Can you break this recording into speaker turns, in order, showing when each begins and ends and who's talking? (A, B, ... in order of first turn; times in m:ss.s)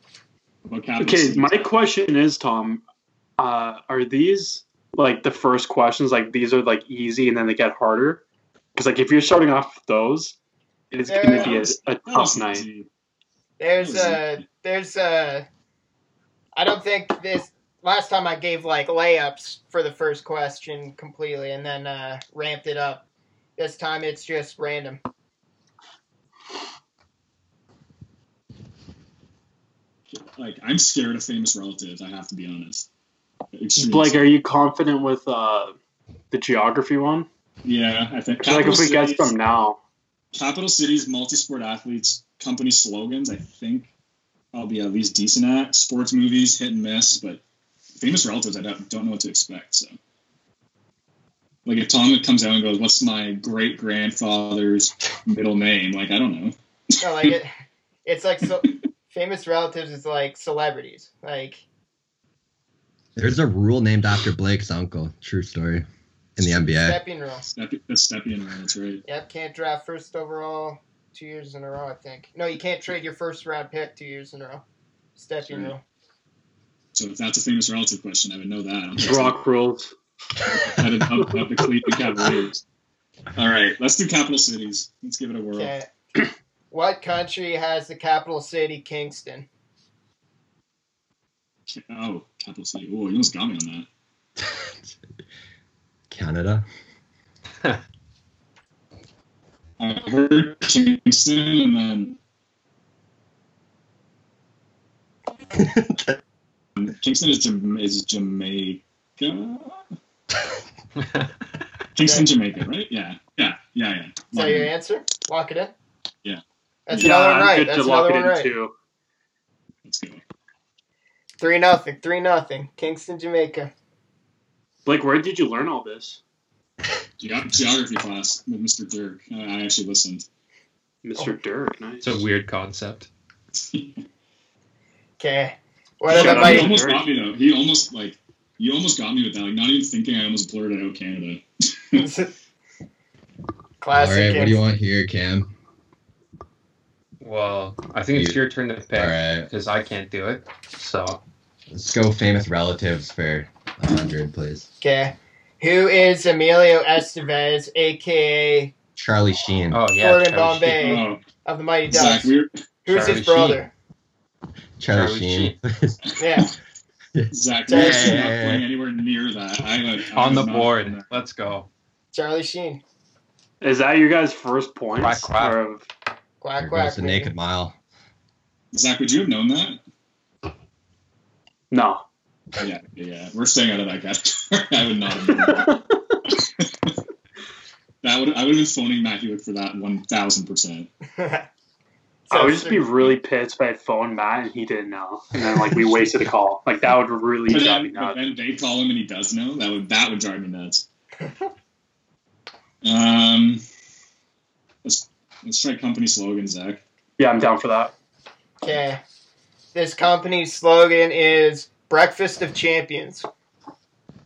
0:00.6-0:01.7 A
0:01.0-0:02.8 B
0:03.4-0:08.2 B
0:08.7-0:10.3 B
0:10.9-0:12.6 B
0:11.1-0:11.6 C
0:11.3-0:12.9 A
0:13.6-0:15.4 C
0:13.8-0:14.4 A
0:16.5-0:23.0 C
0:23.6-0:25.0 C
0:30.1-0:32.9 A
0:33.5-0:34.3 A
0:33.8-0:35.7 B
0:36.3-0:37.3 B
0:37.6-0:39.3 A
0:38.4-0:39.8 B
0:40.3-0:43.9 A
0:44.5-0:47.4 A
0:48.0-0:49.9 A
0:51.6-0:57.4 A
0:57.0-0:57.5 C
0:58.0-1:01.6 C
1:03.2-1:05.8 D
1:06.4-1:07.0 D
1:06.4-1:06.7 A
1:06.8-1:07.4 C
1:07.4-1:09.0 A
1:09.0-1:14.6 C
1:15.2-1:15.8 C
1:15.5-1:15.7 A
1:16.9-1:19.4 A
1:19.0-1:19.9 B
1:20.4-1:22.6 A
1:23.3-1:25.7 A
1:25.5-1:25.9 C
1:26.7-1:29.4 C
1:31.7-1:33.9 A
1:34.5-1:34.9 D
1:36.1-1:36.6 D
1:39.8-1:42.2 A
1:45.5-1:46.1 D
1:46.8-1:49.8 A
1:51.0-1:51.3 E
1:51.9-1:54.7 A
1:54.3-1:55.7 C
1:56.9-1:58.5 C
1:56.9-1:58.7 B
1:59.8-2:00.2 A
2:01.4-2:03.7 C
2:04.8-2:06.2 B
2:07.2-2:10.2 A
2:11.0-2:12.2 B
2:12.0-2:13.1 E
2:13.5-2:14.0 A
2:15.2-2:16.7 C
2:16.1-2:17.1 B
2:16.1-2:22.0 A
2:22.0-2:22.3 C
2:23.8-2:24.6 C
2:23.9-2:25.5 D
2:27.2-2:31.2 E
2:28.1-2:28.4 D
2:28.9-2:29.5 D
2:31.7-2:34.7 D
2:34.8-2:38.7 C
2:39.0-2:39.8 D
2:39.7-2:40.9 E
2:40.0-2:42.3 C
2:40.8-2:41.2 A
2:41.9-2:42.5 A
2:42.8-2:43.7 C
2:42.9-2:43.6 E
2:44.8-2:46.0 D
2:44.9-2:45.6 E
2:46.2-2:46.5 C
2:47.1-2:48.6 D
2:47.3-2:51.2 A
2:47.7-2:48.2 C
2:50.1-2:51.7 E
2:52.1-2:52.8 C
2:53.6-2:55.8 B
2:55.0-2:55.6 E
2:56.4-2:57.3 C
2:56.6-2:57.7 D
2:58.7-2:59.8 A
3:01.7-3:02.0 B
3:02.6-3:06.9 A
3:05.5-3:05.9 B
3:08.0-3:10.9 A
3:11.2-3:11.5 C
3:12.3-3:12.9 C
3:12.3-3:18.2 B
3:17.5-3:20.8 A
3:22.8-3:23.6 A
3:24.8-3:26.8 A
3:27.2-3:27.9 B
3:28.6-3:29.0 C
3:29.7-3:33.2 C